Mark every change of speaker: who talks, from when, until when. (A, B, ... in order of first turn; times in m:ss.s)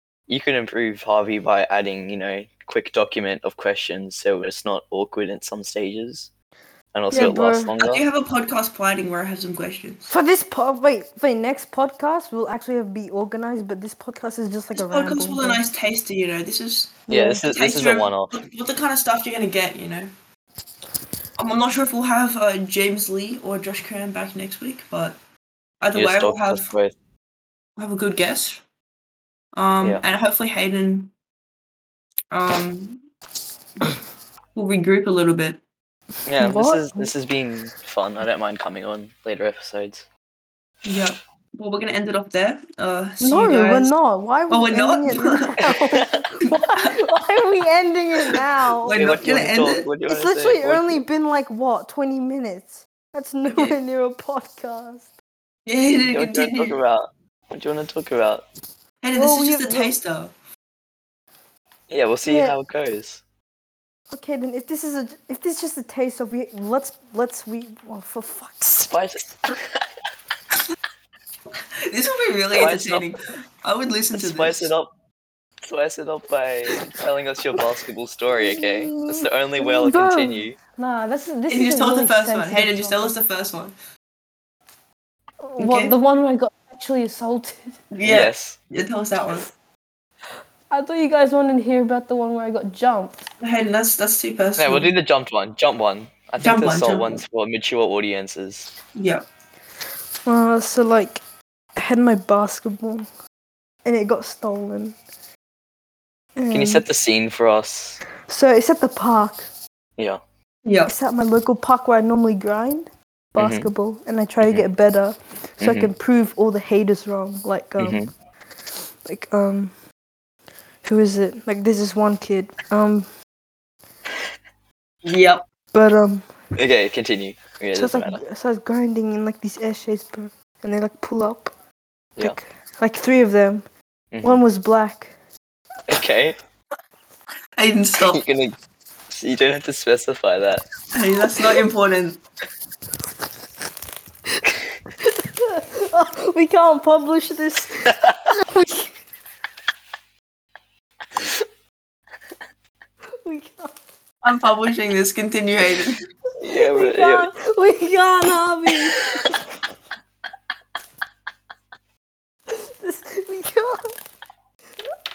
0:00.3-0:06.3 A
0:06.9-0:08.0 A
0:07.1-0:07.7 B
0:07.8-0:10.1 C
0:10.0-0:15.6 B
0:14.8-0:20.1 C
0:17.1-0:17.4 B
0:17.1-0:18.3 A
0:21.4-0:25.2 C
0:25.8-0:26.6 C
0:25.9-0:26.9 A
0:27.8-0:28.6 C
0:29.6-0:31.1 C
0:32.3-0:33.0 C
0:34.6-0:35.6 C
0:36.3-0:40.1 A
0:36.4-0:37.1 B
0:40.9-0:43.9 C
0:43.2-0:49.0 B
0:44.5-0:45.6 C
0:45.6-0:46.2 A
0:46.4-0:47.0 C
0:48.9-0:49.9 C
0:48.9-0:51.0 A
0:50.1-0:55.1 B
0:53.5-0:53.8 C
0:55.6-0:56.8 C
0:56.1-0:58.4 A
0:59.0-1:00.3 C
0:59.1-0:59.9 B
1:01.9-1:03.2 A
1:02.2-1:02.6 B
1:04.1-1:09.0 B
1:08.9-1:09.8 A
1:11.8-1:14.7 C
1:12.6-1:13.1 A
1:14.1-1:14.9 A
1:15.6-1:20.6 A
1:18.4-1:23.1 B
1:21.5-1:23.7 C
1:25.4-1:27.8 B
1:25.6-1:25.9 C
1:27.9-1:29.5 C
1:28.0-1:28.6 A
1:30.7-1:33.3 B
1:33.4-1:34.9 C
1:34.6-1:38.7 A
1:36.4-1:37.2 C
1:39.0-1:39.2 C
1:40.3-1:41.2 B
1:41.8-1:43.1 B
1:43.8-1:45.0 B
1:46.4-1:46.8 B
1:46.5-1:48.0 A
1:48.3-1:49.5 B
1:50.6-1:50.9 C
1:50.9-1:58.0 B
1:53.4-1:53.7 A
1:55.6-1:55.9 A
1:57.8-1:58.1 A
1:59.0-1:59.7 B
2:00.8-2:03.1 B
2:05.0-2:05.4 C
2:05.7-2:06.2 B
2:06.6-2:08.2 A
2:07.7-2:11.5 B
2:12.2-2:13.6 B
2:14.1-2:14.4 A
2:14.2-2:15.1 B
2:15.9-2:16.4 A
2:17.6-2:18.2 C
2:18.0-2:18.6 A
2:19.1-2:20.6 A
2:20.9-2:22.2 C
2:25.0-2:28.9 B
2:33.2-2:33.8 B
2:34.2-2:36.0 C
2:36.4-2:37.3 A
2:36.5-2:39.4 B
2:42.5-2:44.0 B